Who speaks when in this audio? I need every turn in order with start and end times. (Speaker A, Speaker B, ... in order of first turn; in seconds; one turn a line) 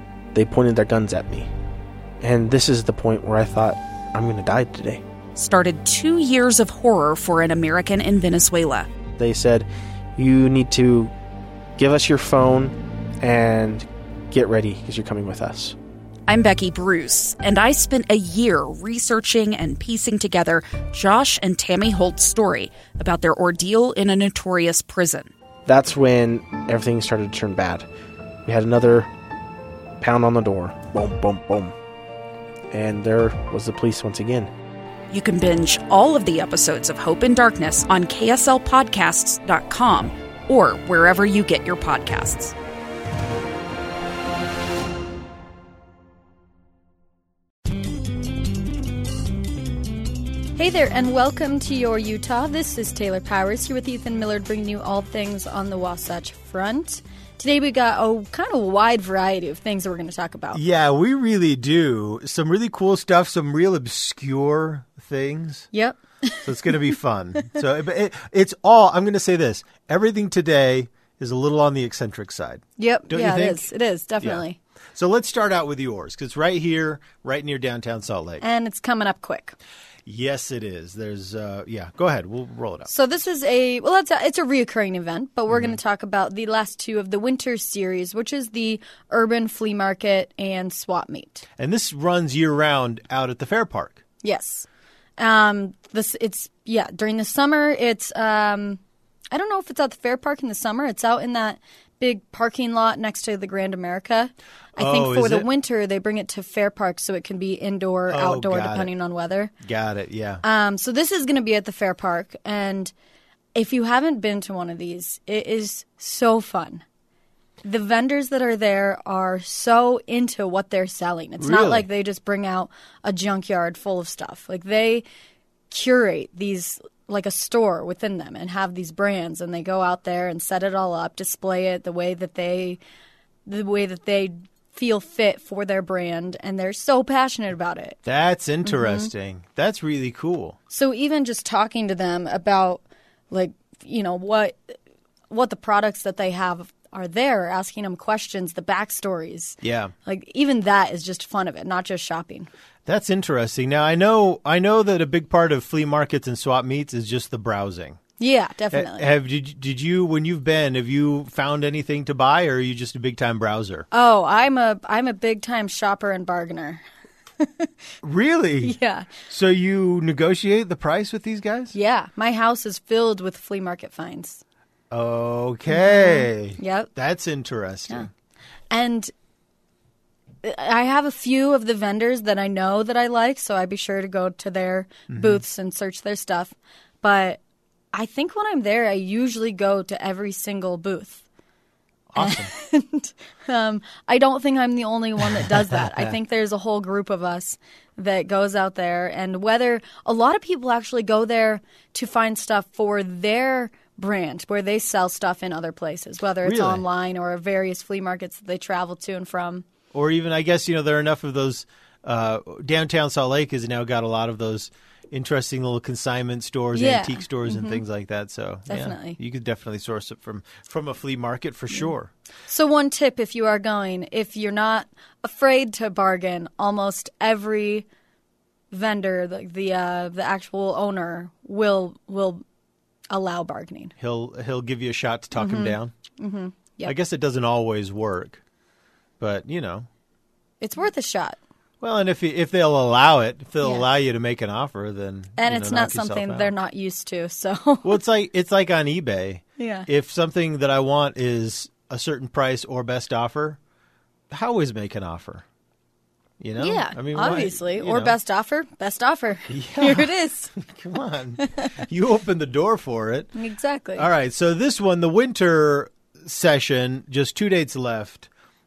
Speaker A: 0.3-1.5
Speaker A: 2.2-5.0
Speaker B: 5.3-8.9
Speaker A: 9.2-11.1
Speaker A: 11.8-15.8
Speaker B: 16.3-25.3
Speaker A: 25.6-27.9
Speaker A: 28.4-29.1
Speaker A: 30.0-31.7
Speaker A: 32.7-34.5
Speaker B: 35.1-42.5
Speaker C: 50.5-60.6
Speaker D: 60.5-65.7
Speaker C: 65.7-66.9
Speaker D: 66.4-73.7
Speaker C: 72.8-74.6
Speaker D: 74.2-78.4
Speaker C: 78.4-79.5
Speaker D: 80.0-82.9
Speaker C: 82.8-91.4
Speaker D: 85.5-85.8
Speaker D: 91.6-94.0
Speaker C: 94.2-94.7
Speaker C: 95.2-109.5
Speaker D: 104.8-105.5
Speaker D: 108.1-108.9
Speaker D: 109.6-110.4
Speaker C: 110.4-112.9
Speaker C: 113.5-116.8
Speaker C: 117.6-125.0
Speaker D: 121.4-121.9
Speaker C: 125.7-132.8
Speaker C: 133.4-138.0
Speaker D: 138.0-140.6
Speaker C: 138.6-139.1
Speaker C: 140.7-144.8
Speaker C: 145.3-152.5
Speaker D: 149.6-149.9
Speaker D: 152.8-158.0
Speaker C: 158.2-159.1
Speaker D: 158.7-163.9
Speaker C: 163.9-166.8
Speaker C: 167.4-167.7
Speaker D: 168.0-168.8
Speaker C: 168.6-169.1
Speaker D: 169.3-171.7
Speaker C: 171.7-174.4
Speaker D: 174.9-178.1
Speaker C: 175.7-176.9
Speaker C: 178.7-179.1
Speaker C: 180.4-187.4
Speaker D: 185.1-185.4
Speaker C: 187.9-191.2
Speaker D: 192.1-192.5
Speaker C: 192.2-209.7
Speaker D: 206.4-206.8
Speaker D: 209.9-222.1
Speaker C: 216.7-217.8
Speaker C: 218.7-219.2
Speaker C: 222.5-227.8
Speaker C: 228.7-232.4
Speaker C: 233.1-233.9
Speaker D: 234.0-235.9
Speaker C: 235.4-236.9
Speaker D: 236.8-238.4
Speaker D: 239.2-239.9
Speaker C: 240.6-241.4
Speaker D: 241.8-246.5
Speaker C: 243.6-243.9
Speaker C: 245.4-248.0
Speaker D: 247.8-253.6
Speaker C: 249.6-249.9
Speaker D: 254.3-255.4
Speaker D: 256.4-258.1
Speaker C: 256.6-260.5
Speaker D: 259.5-263.4
Speaker C: 263.4-264.1
Speaker D: 263.9-268.3